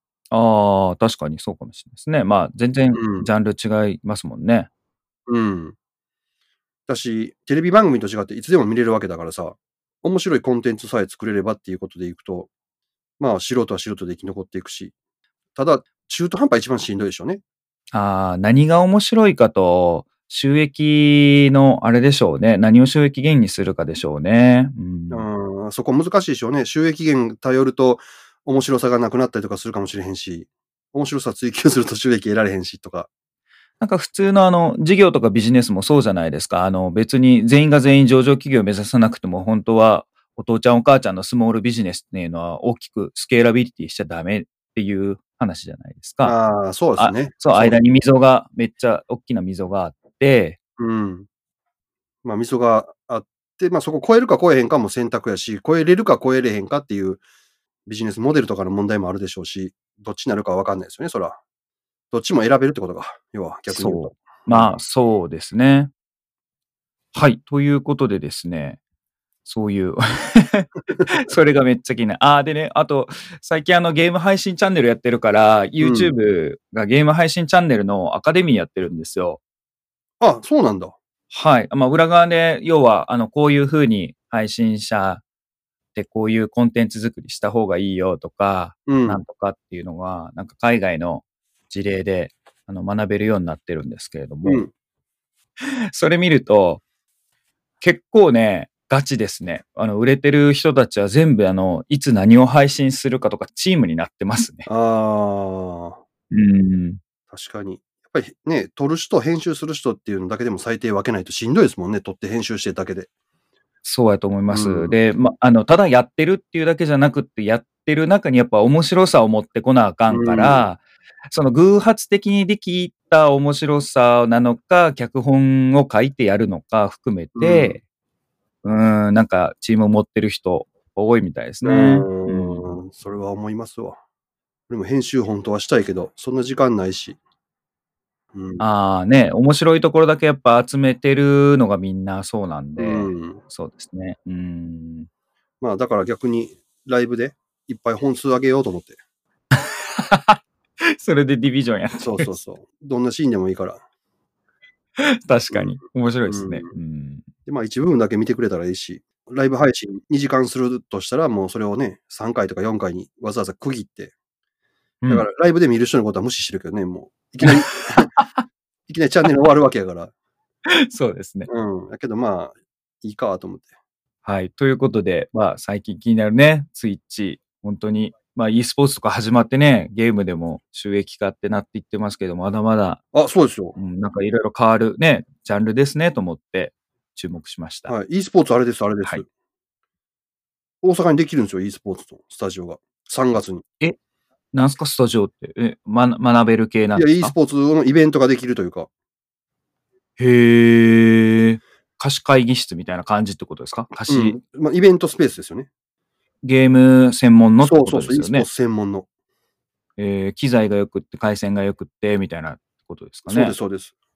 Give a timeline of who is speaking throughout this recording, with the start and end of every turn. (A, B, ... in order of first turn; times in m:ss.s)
0:00.3-0:04.7 A
0:02.9-0:03.3 B
0:05.3-0:05.7 B
0:06.9-0:12.5 B
0:13.2-0:14.9 B
0:15.6-0:17.4 B
0:17.9-0:25.3 A
0:25.1-0:33.1 B
0:33.8-0:46.4 A
0:46.2-0:47.8 B
0:47.0-0:50.6 A
0:50.8-0:51.3 B
0:52.2-0:57.2 B
0:57.8-1:01.4 B
1:02.1-1:04.7 B
1:03.7-1:05.9 A
1:07.1-1:08.8 A
1:09.4-1:19.4 A
1:15.8-1:16.1 B
1:20.2-1:20.9 B
1:21.3-1:25.2 A
1:25.9-1:34.6 A
1:28.9-1:29.2 B
1:34.4-1:34.7 B
1:35.6-1:36.8 A
1:37.8-1:44.7 A
1:44.6-1:46.0 B
1:46.3-1:47.0 A
1:47.3-1:53.1 B
1:53.8-2:07.8 A
1:54.5-1:54.9 B
2:00.1-2:00.6 B
2:07.4-2:07.8 B
2:08.6-2:12.8 A
2:11.6-2:14.0 B
2:14.7-2:17.2 B
2:18.3-2:18.6 B
2:18.6-2:25.1 A
2:22.8-2:23.4 B
2:25.6-2:29.0 B
2:29.5-2:32.3 A
2:32.0-2:33.8 B
2:35.0-2:37.2 A
2:35.5-2:36.7 B
2:37.4-2:44.1 B
2:45.0-2:45.3 A
2:45.1-2:48.1 B
2:47.4-2:48.4 A
2:48.9-2:50.1 B
2:50.7-2:51.5 A
2:51.5-2:53.7 B
2:54.2-3:03.0 A
3:03.1-3:03.8 B
3:03.8-3:07.9 A
3:07.9-3:09.2 B
3:10.8-3:13.6 B
3:14.5-3:17.3 A
3:16.9-3:18.9 B
3:20.2-3:24.4 A
3:24.1-3:25.7 B
3:26.4-3:28.5 A
3:27.6-3:29.1 B
3:30.0-3:33.6 A
3:33.3-3:33.9 B